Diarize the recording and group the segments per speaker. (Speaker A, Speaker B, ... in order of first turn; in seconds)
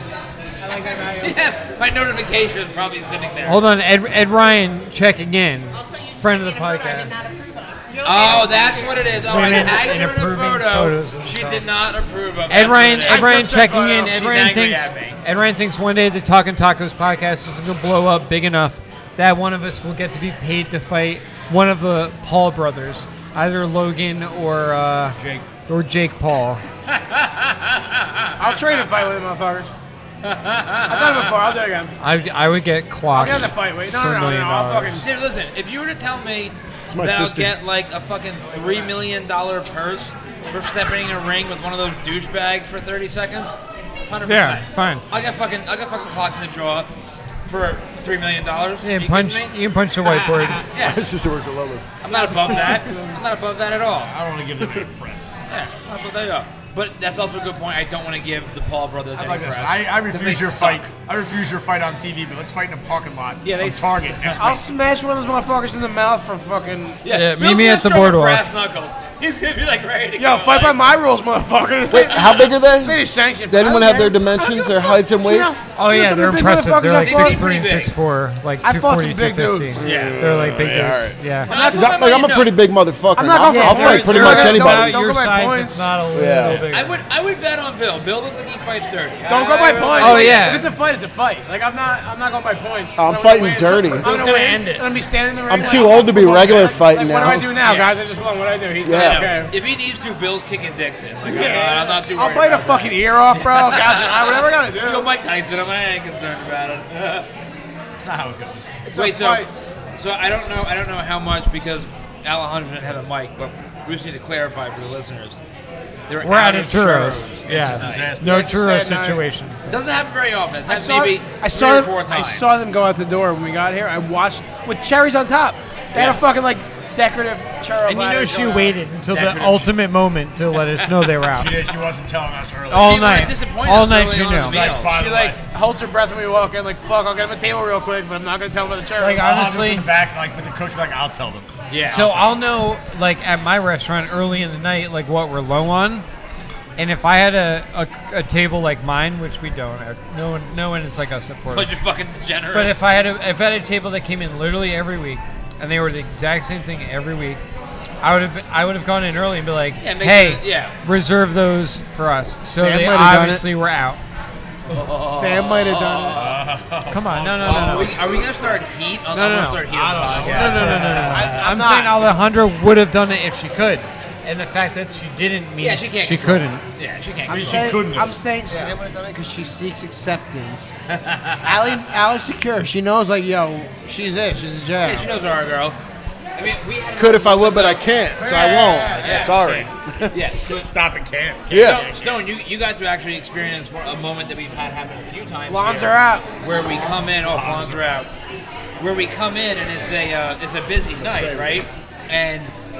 Speaker A: 0.6-1.4, 13.1-14.1, 28.4-29.7, 30.9-31.9, 33.1-35.1, 52.1-53.2, 64.4-67.0, 70.2-77.5, 78.6-79.8, 81.4-82.0, 83.2-85.9, 89.2-99.5, 101.2-105.1, 108.9-109.5, 118.2-119.2, 120.7-128.8, 134.9-139.2, 162.4-163.4, 164.9-166.4, 170.6-172.1, 177.3-180.7, 181.4-185.1, 188.2-189.3, 195.5-196.3
Speaker B: 1.2-3.6, 8.0-15.2, 26.9-28.8, 30.2-31.3, 35.0-43.5, 44.1-46.9, 47.5-49.5, 52.0-54.1, 55.5-60.9, 63.4-64.6, 67.0-70.9, 72.1-72.5, 77.0-77.9, 79.8-80.2, 81.5-82.5, 86.7-90.6, 97.6-98.0, 98.9-107.3, 108.9-115.4, 116.1-118.1, 119.7-122.4, 125.9-126.2, 129.1-129.8, 130.8-131.1, 132.7-134.9, 141.7-142.4, 151.5-152.8, 159.8-160.7, 164.7-166.4, 167.4-171.5, 175.6-177.8, 180.9-181.7, 184.8-185.8, 186.4-190.5, 191.5-198.1, 198.8-202.5
Speaker C: 3.4-7.1, 9.2-11.7, 12.5-25.2, 25.7-26.6, 32.0-35.0, 44.2-45.0, 48.8-50.6, 67.1-68.4, 75.7-81.5, 83.5-87.0, 90.0-90.7, 94.0-94.9, 95.5-96.6, 116.2-119.6, 127.9-131.5, 132.7-134.7, 139.0-139.9, 141.9-146.1, 146.8-151.7, 152.5-157.4, 158.0-164.0, 166.9-167.9, 169.1-176.6
Speaker D: 5.7-9.9
Speaker E: 25.2-25.4, 54.0-55.3, 59.1-64.6, 108.0-108.6, 117.5-118.6, 131.3-133.3, 134.4-135.4, 139.2-141.5, 166.1-168.6, 169.7-171.1, 177.3-178.2, 188.9-189.4, 190.4-192.2, 196.5-197.8, 201.0-201.7
Speaker F: 36.9-37.5, 50.8-51.9, 71.9-75.6, 79.8-85.0, 86.1-86.6, 93.0-94.1, 95.5-97.5, 98.8-99.3, 186.9-190.2, 191.5-191.8